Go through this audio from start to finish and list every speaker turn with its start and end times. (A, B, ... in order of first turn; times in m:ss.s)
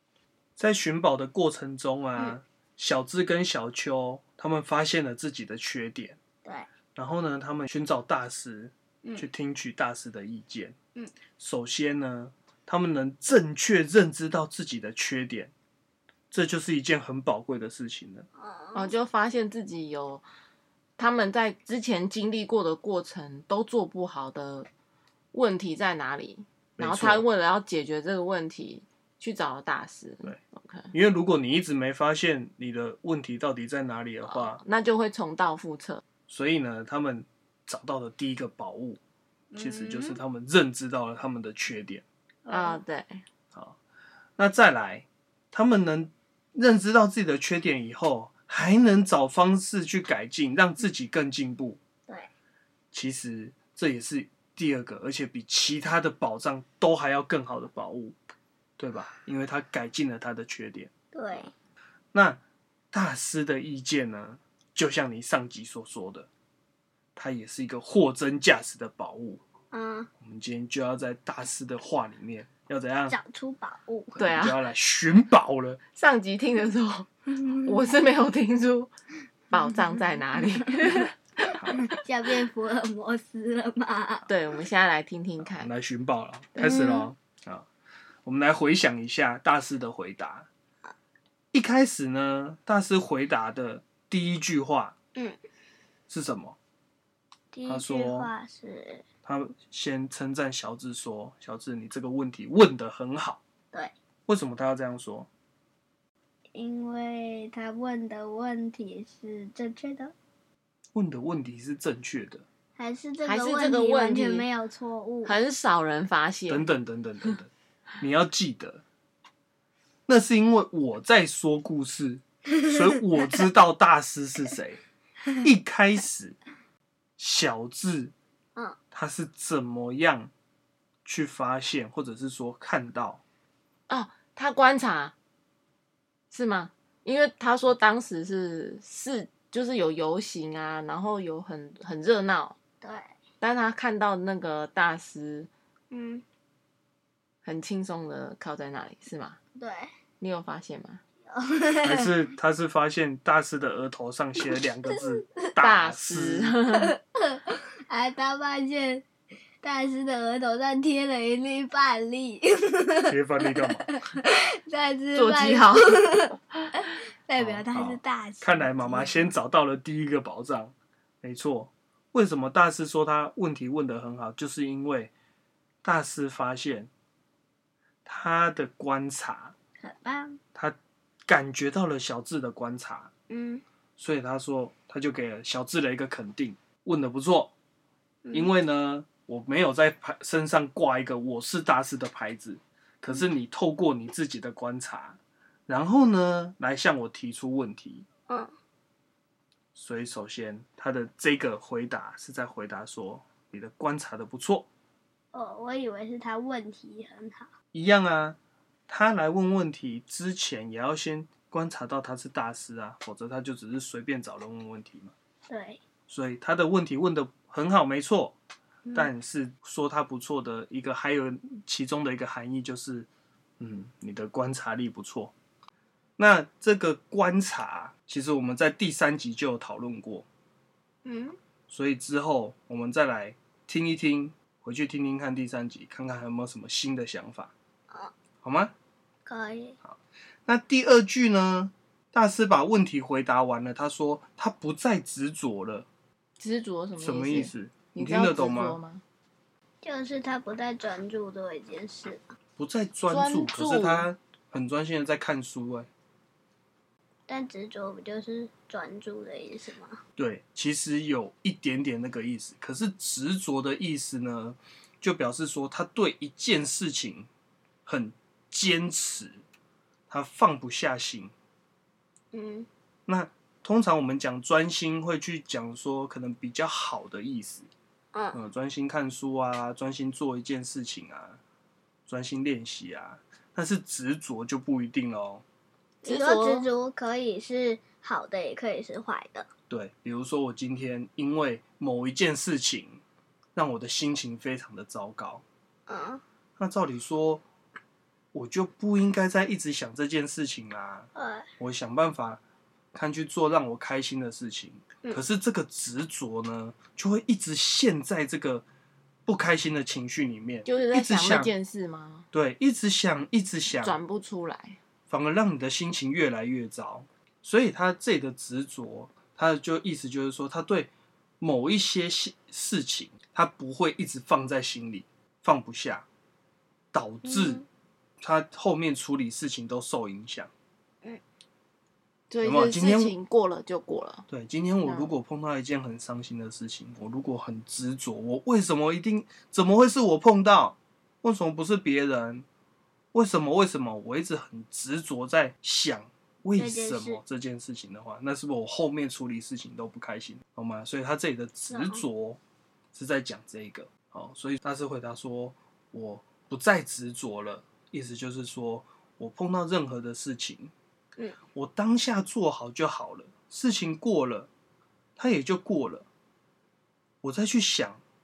0:00.6-0:06.2 A
0:07.0-0:10.8 A
0:11.4-0:15.5 A
0:16.3-0:18.2 A
0:18.4-0:18.9 B
0:18.7-0:20.2 C
0:21.0-0:24.7 C
0:25.3-0:30.9 C
0:26.8-0:27.2 A
0:30.9-0:34.6 A
0:34.2-0:36.0 C
0:36.3-0:39.0 A
0:39.5-0:40.2 B
0:39.6-0:42.0 A
0:42.4-0:42.8 B
0:42.5-0:43.2 C
0:44.4-0:51.8 A
0:52.9-0:58.2 A
0:58.8-1:00.9 A
1:01.1-1:01.5 B
1:02.1-1:02.4 A
1:02.9-1:06.3 A
1:07.2-1:09.4 A
1:09.7-1:10.1 B
1:10.2-1:13.2 A
1:13.1-1:14.2 B
1:14.1-1:15.8 A
1:14.2-1:14.6 C
1:15.9-1:18.9 C
1:19.5-1:21.1 C
1:21.5-1:21.8 A
1:21.7-1:21.9 C
1:21.9-1:24.2 B
1:24.3-1:25.7 C
1:25.4-1:27.7 A
1:26.6-1:27.1 B
1:26.7-1:27.0 C
1:28.2-1:30.5 A
1:31.5-1:34.9 A
1:36.1-1:36.6 A
1:37.5-1:39.0 B
1:37.7-1:38.3 A
1:39.2-1:43.4 A
1:44.3-1:45.3 A
1:46.5-1:50.1 B
1:50.9-1:52.4 A
1:52.8-1:55.4 B
1:53.2-1:54.5 C
1:55.2-1:56.7 C
1:56.5-1:58.8 A
2:00.1-2:04.8 A
2:05.4-2:06.4 A
2:07.2-2:08.1 A
2:08.9-2:10.3 A
2:11.0-2:13.2 A
2:13.9-2:15.1 C
2:16.3-2:22.6 C
2:22.8-2:23.1 B
2:23.4-2:25.5 C
2:25.9-2:26.2 B
2:27.4-2:29.4 C
2:29.6-2:29.9 B
2:30.2-2:31.0 C
2:31.3-2:32.3 B
2:31.8-2:36.6 A
2:35.6-2:36.9 C
2:36.7-2:39.0 B
2:39.6-2:46.2 B
2:43.1-2:43.9 A
2:45.1-2:46.0 C
2:46.8-2:49.3 B
2:47.4-2:55.1 A
2:55.8-2:56.9 A
2:58.0-2:59.5 A
2:59.8-3:00.4 B
3:01.3-3:03.1 A
3:03.3-3:03.6 B
3:04.0-3:07.5 A
3:08.2-3:08.5 B
3:08.3-3:18.1 A
3:19.7-3:24.7 A
3:25.3-3:27.5 B
3:27.7-3:28.4 A
3:28.9-3:35.1 A
3:35.5-3:35.8 B
3:36.1-3:38.4 A
3:38.8-3:39.1 B
3:38.9-3:43.1 A
3:43.6-3:45.3 A
3:46.2-3:50.2 A
3:51.0-3:51.4 B
3:51.7-3:57.5 A
3:58.4-3:58.7 A
3:59.2-3:59.8 B
3:59.8-4:05.9 A
4:06.4-4:09.0 C
4:07.0-4:08.8 A
4:09.8-4:12.2 B
4:12.6-4:15.9 A
4:13.1-4:14.1 C
4:17.3-4:20.0 B
4:20.2-4:27.3 A
4:27.8-4:29.4 A
4:30.1-4:31.3 A
4:32.3-4:32.7 B
4:33.1-4:37.7 A
4:38.1-4:38.4 B
4:38.3-4:41.4 A
4:42.1-4:45.4 A
4:46.0-4:49.5 B
4:46.0-4:46.7 C
4:49.7-4:53.0 A
4:53.6-4:55.4 A
4:55.9-4:56.2 B
4:56.6-4:57.4 A
4:58.3-5:02.4 A
5:01.1-5:01.5 B
5:02.9-5:08.6 A
5:09.2-5:11.5 A
5:10.6-5:12.3 C
5:12.3-5:14.0 A
5:13.8-5:14.8 C
5:15.1-5:26.0 A
5:26.9-5:27.6 A
5:27.2-5:27.6 B
5:28.2-5:30.5 A
5:32.3-5:34.2 C
5:32.4-5:33.1 A
5:34.3-5:42.4 A
5:34.8-5:35.1 C
5:43.1-5:52.4 A
5:46.6-5:47.2 B
5:51.7-5:52.0 B
5:52.9-6:00.7 A
6:01.5-6:04.5 A
6:05.2-6:06.1 A
6:07.2-6:08.0 A